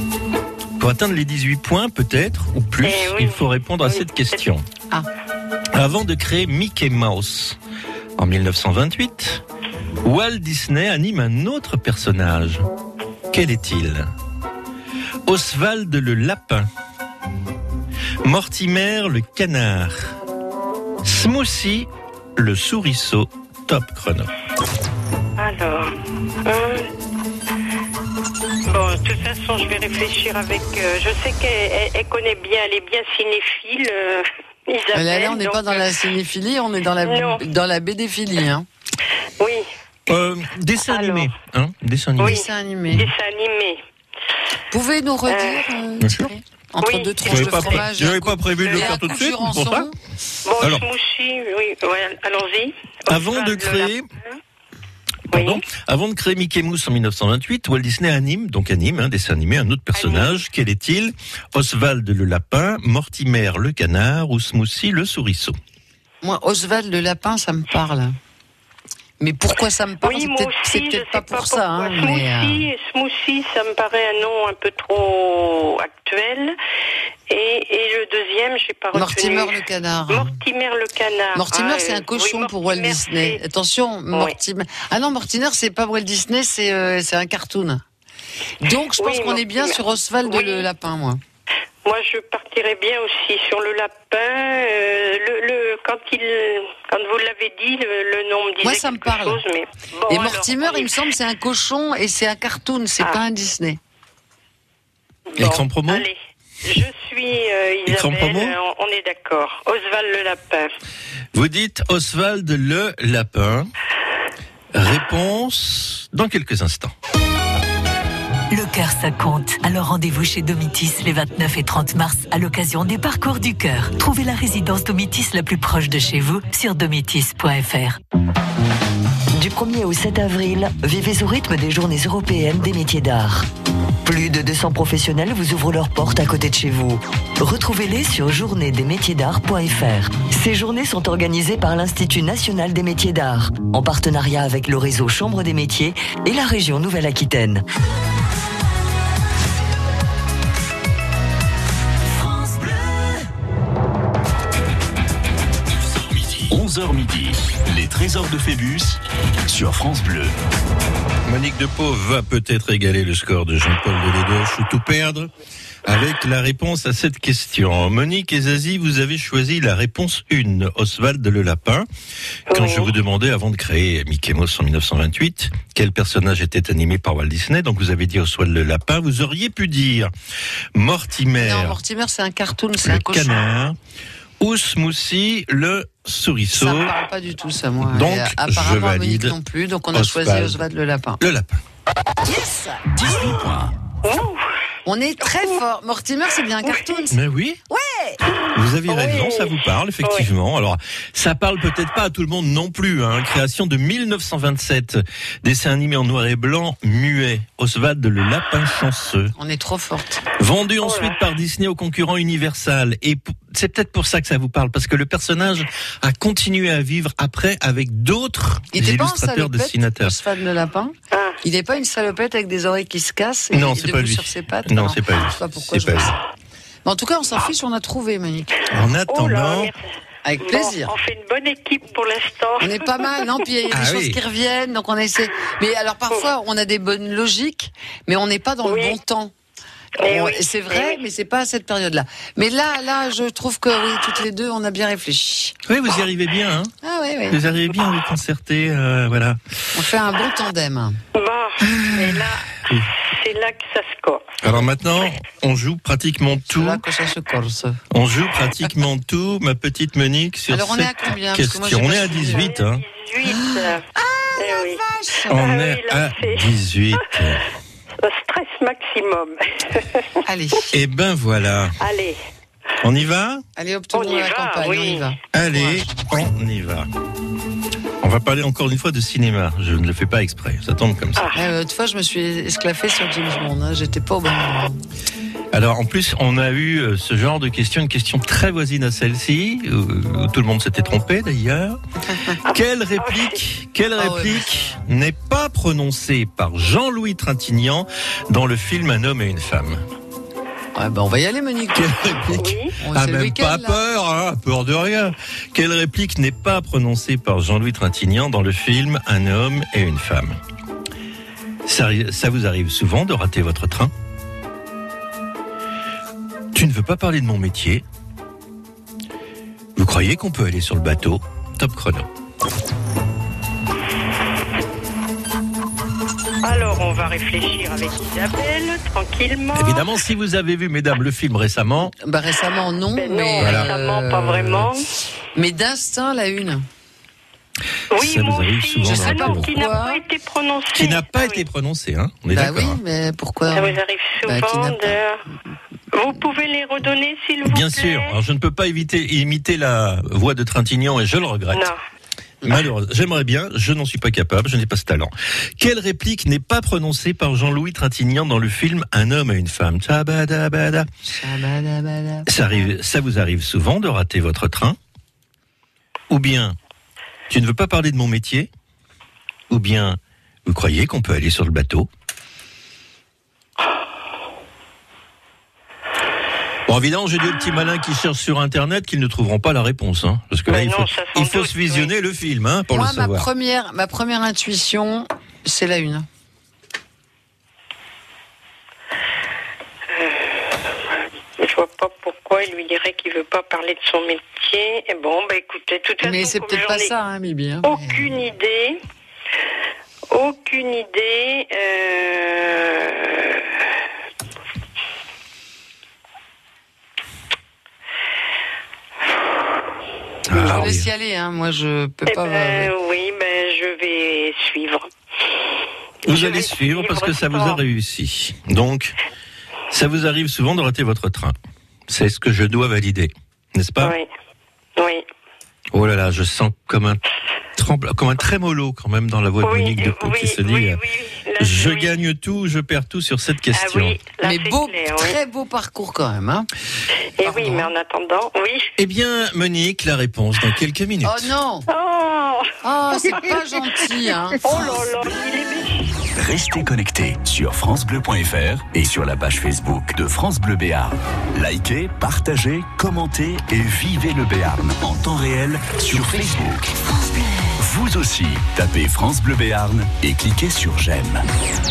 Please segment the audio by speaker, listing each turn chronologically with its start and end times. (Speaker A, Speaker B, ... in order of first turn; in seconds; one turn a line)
Speaker A: 0.8-4.7
Speaker B: 2.8-4.3
Speaker A: 5.7-7.6
Speaker A: 8.2-9.4
Speaker A: 10.0-12.6
Speaker A: 13.3-14.1
Speaker A: 15.2-16.7
Speaker A: 18.2-20.1
Speaker A: 21.0-24.3
Speaker B: 25.4-25.9
Speaker B: 26.4-26.9
Speaker B: 28.7-35.9
Speaker C: 34.9-38.6
Speaker B: 37.0-37.4
Speaker B: 39.4-39.6
Speaker A: 40.1-43.1
Speaker B: 40.9-41.3
Speaker B: 42.2-43.8
Speaker C: 42.2-43.0
Speaker C: 44.7-49.9
Speaker B: 45.3-45.6
Speaker A: 46.0-46.3
Speaker B: 46.8-47.9
Speaker A: 47.2-49.9
Speaker B: 48.6-49.0
Speaker B: 50.4-54.4
Speaker A: 50.6-50.8
Speaker A: 53.1-54.0
Speaker A: 55.3-65.6
Speaker B: 55.3-55.6
Speaker B: 59.9-60.4
Speaker C: 66.2-68.2
Speaker C: 69.2-72.6
Speaker B: 70.0-76.6
Speaker B: 77.3-79.5
Speaker C: 78.9-80.3
Speaker B: 80.1-83.4
Speaker C: 81.3-87.8
Speaker C: 88.6-91.2
Speaker B: 89.0-90.7
Speaker B: 91.8-100.9
Speaker C: 98.6-99.4
Speaker C: 100.1-103.8
Speaker B: 105.3-110.7
Speaker A: 105.4-106.1
Speaker A: 107.8-108.5
Speaker A: 111.3-113.7
Speaker A: 114.7-116.9
Speaker D: 118.5-128.0
Speaker E: 129.3-133.5
Speaker E: 134.0-147.6
Speaker F: 156.4-160.3
Speaker A: 161.2-165.3
Speaker A: 165.8-171.8
Speaker B: 172.5-172.9
Speaker A: 172.5-180.1
Speaker A: 180.7-181.8
Speaker C: 181.4-183.4
Speaker A: 182.8-183.8
Speaker A: 184.4-186.9
Speaker C: 186.5-191.2
Speaker A: 187.8-189.3
Speaker A: 189.9-190.6
Speaker A: 191.2-191.6
Speaker C: 192.3-192.8
Speaker F: 192.8-193.7
Speaker B: 194.0-194.4
Speaker C: 194.8-197.2
Speaker A: 197.1-197.6
Speaker C: 197.9-198.1
Speaker B: 198.4-200.3
Speaker A: 198.5-209.3
Speaker C: 209.4-210.2
Speaker A: 210.4-220.2
Speaker B: 210.8-211.2
Speaker C: 218.7-226.2
Speaker B: 221.1-221.4
Speaker A: 223.5-226.2
Speaker C: 226.8-228.6
Speaker A: 228.7-229.7
Speaker B: 229.1-229.8
Speaker C: 230.2-230.9
Speaker B: 230.4-233.4
Speaker C: 232.6-239.3
Speaker A: 233.7-234.2
Speaker B: 238.6-239.0
Speaker B: 240.0-241.0
Speaker C: 240.0-245.5
Speaker A: 245.7-246.7
Speaker C: 246.8-247.4
Speaker A: 247.3-249.4
Speaker C: 249.7-251.0
Speaker B: 251.1-254.2
Speaker C: 251.7-252.2
Speaker A: 254.4-256.8
Speaker C: 256.5-257.8
Speaker A: 257.9-262.8
Speaker C: 260.5-262.5
Speaker B: 262.1-263.8
Speaker C: 263.2-265.4
Speaker B: 264.4-266.5
Speaker A: 265.3-267.4
Speaker B: 268.0-270.0
Speaker C: 270.2-270.8
Speaker A: 270.7-271.8
Speaker B: 271.8-272.2
Speaker A: 272.8-273.4
Speaker C: 273.6-275.9
Speaker B: 273.9-275.0
Speaker A: 275.3-276.9
Speaker A: 278.0-281.3
Speaker C: 281.3-284.8
Speaker A: 285.5-291.8
Speaker C: 292.1-292.4
Speaker B: 292.4-293.4
Speaker A: 292.5-299.8
Speaker C: 293.9-294.8
Speaker C: 300.8-303.8
Speaker A: 301.7-310.4
Speaker B: 302.4-302.8
Speaker A: 311.6-313.9
Speaker A: 316.5-317.8
Speaker A: 319.8-322.1
Speaker B: 326.4-329.9
Speaker A: 329.5-331.9
Speaker C: 332.0-334.7
Speaker B: 332.9-334.9
Speaker A: 333.4-333.7
Speaker C: 335.3-336.6
Speaker A: 337.9-339.5
Speaker B: 337.9-341.4
Speaker C: 338.8-340.0
Speaker A: 340.7-342.8
Speaker C: 342.3-345.0
Speaker B: 343.5-345.2
Speaker B: 345.9-348.1
Speaker A: 347.4-351.7
Speaker B: 351.5-351.8
Speaker A: 352.4-360.9
Speaker C: 361.1-362.7
Speaker A: 362.2-364.8
Speaker A: 366.1-366.6
Speaker A: 367.3-368.5
Speaker A: 369.5-371.9
Speaker A: 376.7-383.3
Speaker B: 380.5-381.9
Speaker C: 382.7-386.1
Speaker B: 389.9-390.5
Speaker B: 391.4-396.9
Speaker C: 396.0-398.1
Speaker B: 397.6-398.8
Speaker B: 400.1-403.4
Speaker A: 410.3-410.9
Speaker B: 410.3-410.6
Speaker C: 410.3-412.7
Speaker B: 412.1-414.9
Speaker B: 416.1-417.6
Speaker A: 416.1-418.9
Speaker A: 419.7-421.4
Speaker A: 421.9-423.9
Speaker B: 423.8-424.1
Speaker B: 424.8-425.0
Speaker A: 425.7-427.0
Speaker A: 427.6-430.8
Speaker B: 429.4-431.9
Speaker A: 431.4-434.0
Speaker B: 433.5-435.1
Speaker C: 434.2-436.5
Speaker B: 437.2-438.7
Speaker C: 437.2-437.7
Speaker A: 438.8-441.3
Speaker C: 441.0-441.6
Speaker B: 441.7-442.5
Speaker C: 442.6-444.8
Speaker B: 444.4-445.9
Speaker F: 446.1-456.8
Speaker F: 457.6-461.2